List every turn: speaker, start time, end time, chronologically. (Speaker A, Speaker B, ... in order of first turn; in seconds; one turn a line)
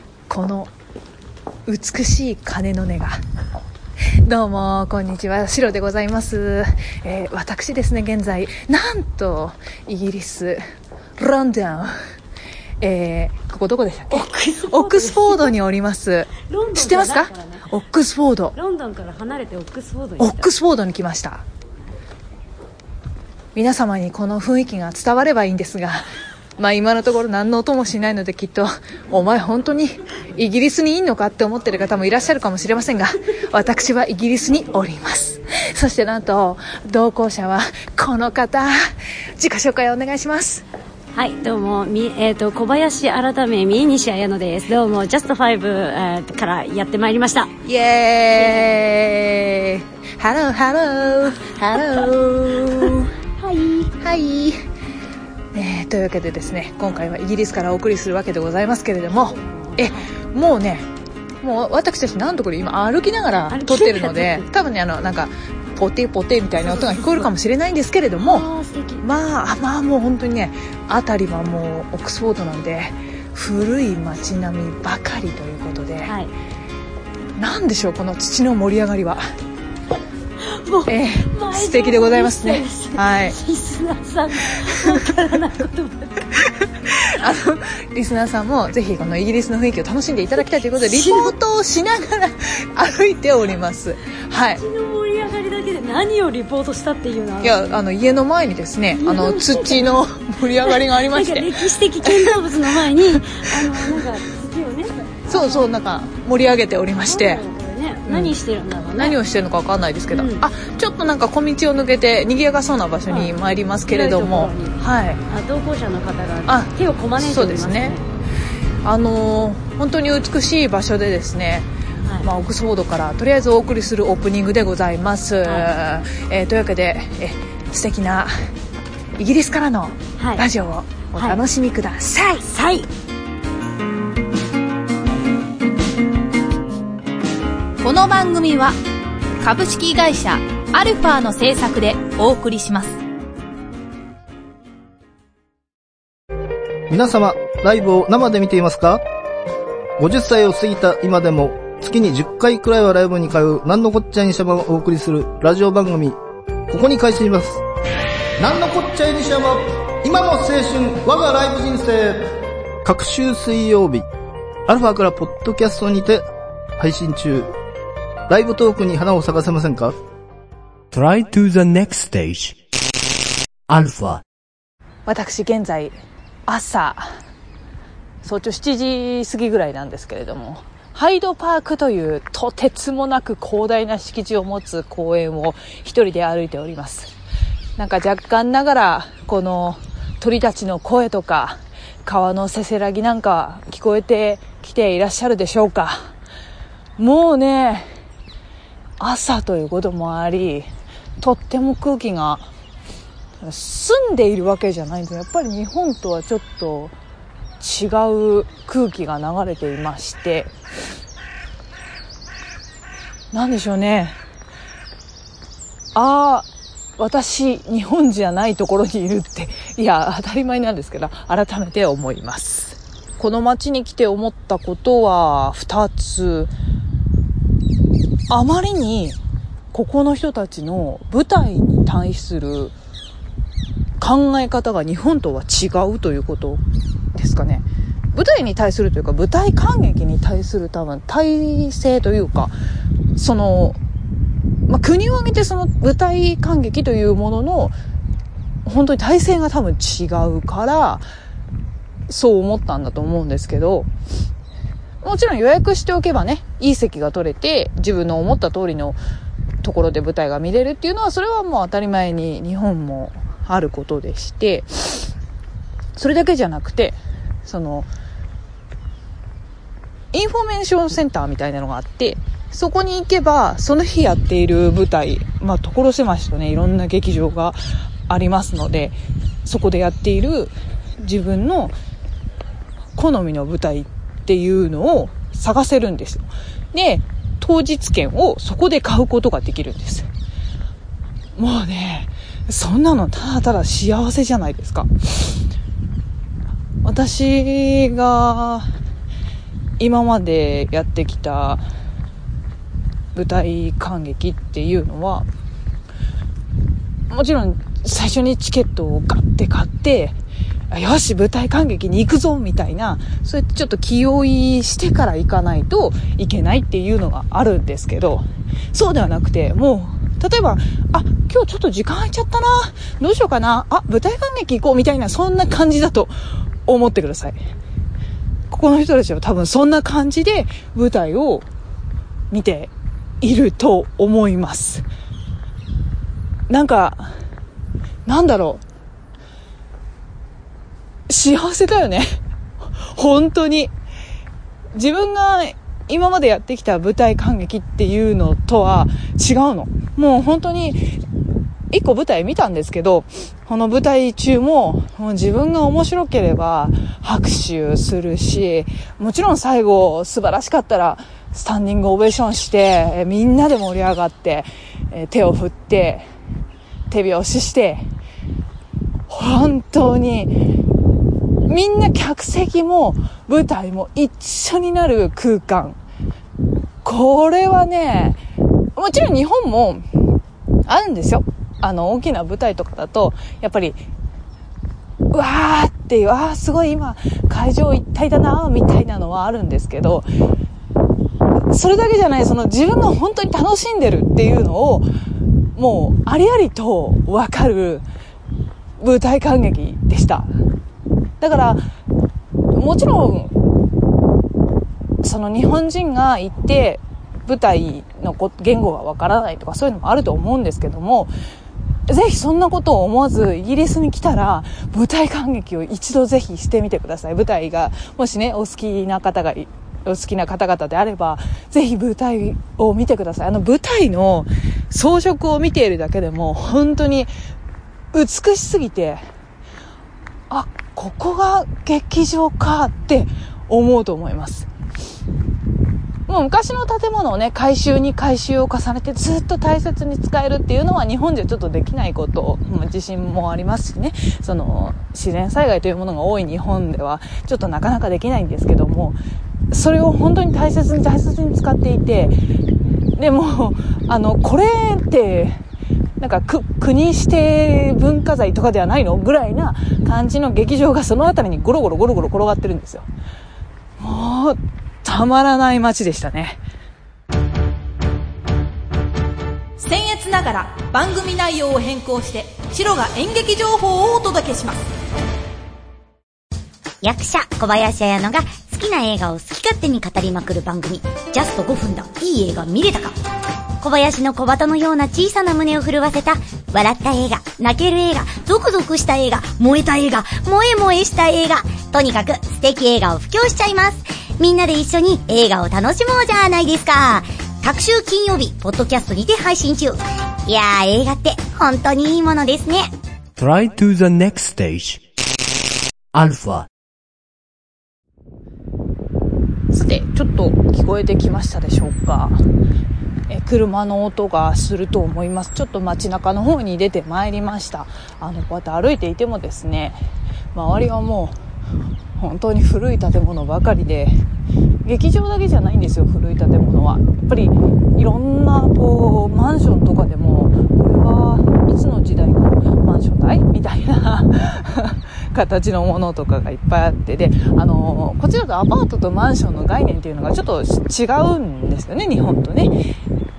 Speaker A: 0.3-0.7
Speaker A: 1.7-3.2
Speaker A: 4.2-10.6
Speaker A: 11.2-11.9
Speaker A: 12.8-18.5
Speaker B: 14.1-15.5
Speaker B: 16.5-17.6
Speaker B: 18.5-20.5
Speaker A: 20.2-21.4
Speaker A: 23.5-26.0
Speaker A: 26.6-38.8
Speaker A: 39.4-40.6
Speaker B: 41.1-47.5
Speaker A: 47.6-53.1
Speaker B: 53.4-53.9
Speaker A: 54.0-54.5
Speaker A: 55.5-60.9
Speaker A: 61.4-68.4
Speaker B: 63.5-64.4
Speaker B: 66.8-67.2
Speaker B: 68.2-69.0
Speaker A: 69.0-76.1
Speaker B: 76.0-76.3
Speaker A: 77.4-79.2
Speaker B: 80.5-86.2
Speaker A: 80.9-83.4
Speaker A: 86.5-94.6
Speaker B: 90.8-91.3
Speaker B: 94.6-97.6
Speaker A: 97.4-101.5
Speaker B: 99.0-99.9
Speaker B: 100.6-105.7
Speaker A: 102.0-102.3
Speaker A: 105.3-107.4
Speaker B: 107.1-109.2
Speaker A: 108.1-108.3
Speaker A: 109.0-115.2
Speaker B: 110.1-110.4
Speaker B: 113.9-114.8
Speaker B: 115.3-118.0
Speaker A: 116.5-118.0
Speaker A: 118.8-121.7
Speaker A: 122.2-128.3
Speaker B: 125.4-125.7
Speaker A: 129.2-132.4
Speaker B: 132.4-132.9
Speaker C: 137.8-138.8
Speaker C: 139.4-143.0
Speaker D: 146.9-149.0
Speaker D: 150.0-156.2
Speaker D: 156.7-157.6
Speaker D: 158.4-162.2
Speaker D: 162.8-164.1
Speaker D: 164.7-166.2
Speaker D: 166.8-167.5
Speaker D: 168.3-169.9
Speaker E: 170.9-172.6
Speaker E: 173.7-174.2
Speaker A: 175.1-177.1
Speaker A: 178.2-187.1
Speaker A: 187.8-196.1
Speaker A: 197.0-197.9
Speaker A: 199.0-200.7
Speaker A: 201.2-202.5
Speaker A: 203.4-206.9
Speaker A: 207.6-210.5
Speaker A: 213.3-214.2
Speaker A: 215.9-216.5
Speaker A: 217.0-226.5
Speaker A: 228.3-229.2
Speaker A: 229.7-232.7
Speaker A: 234.0-236.6
Speaker A: 237.1-242.5
Speaker A: 243.2-243.8
Speaker A: 244.7-247.7
Speaker A: 248.6-251.0
Speaker A: 252.1-253.9
Speaker A: 255.0-259.0
Speaker A: 259.6-265.1
Speaker A: 265.9-267.9
Speaker A: 270.1-277.6
Speaker A: 278.1-281.7
Speaker A: 282.9-290.1
Speaker A: 291.4-295.3
Speaker A: 296.8-298.7
Speaker A: 299.8-301.6
Speaker A: 303.1-305.3
Speaker A: 307.1-310.2
Speaker A: 310.7-326.1
Speaker A: 326.7-327.4
Speaker A: 328.5-331.4
Speaker A: 332.3-332.7
Speaker A: 333.2-334.8
Speaker A: 336.5-337.1
Speaker A: 338.1-338.6
Speaker A: 341.1-342.2
Speaker A: 342.8-343.7
Speaker A: 344.7-350.9
Speaker A: 351.7-366.1
Speaker A: 366.9-367.9
Speaker A: 369.1-370.3
Speaker A: 371.5-375.8
Speaker A: 376.8-378.2
Speaker A: 378.7-379.8
Speaker A: 380.6-383.8
Speaker A: 385.1-390.1
Speaker A: 391.5-394.9
Speaker A: 395.5-397.8
Speaker A: 398.8-400.3
Speaker A: 401.2-401.6
Speaker A: 402.5-403.3
Speaker A: 405.0-411.1
Speaker A: 411.9-427.1
Speaker A: 427.9-429.0
Speaker A: 430.3-434.5
Speaker A: 436.1-449.0
Speaker A: 449.5-452.1
Speaker A: 453.0-455.4
Speaker A: 456.0-462.9
Speaker A: 463.8-466.4
Speaker C: 469.6-474.6
Speaker F: 476.8-482.9
Speaker F: 483.6-502.7
Speaker E: 503.2-504.8
Speaker E: 505.9-506.5
Speaker A: 509.5-512.2
Speaker A: 513.1-519.8
Speaker A: 520.3-521.1
Speaker A: 522.0-524.0
Speaker A: 524.6-542.5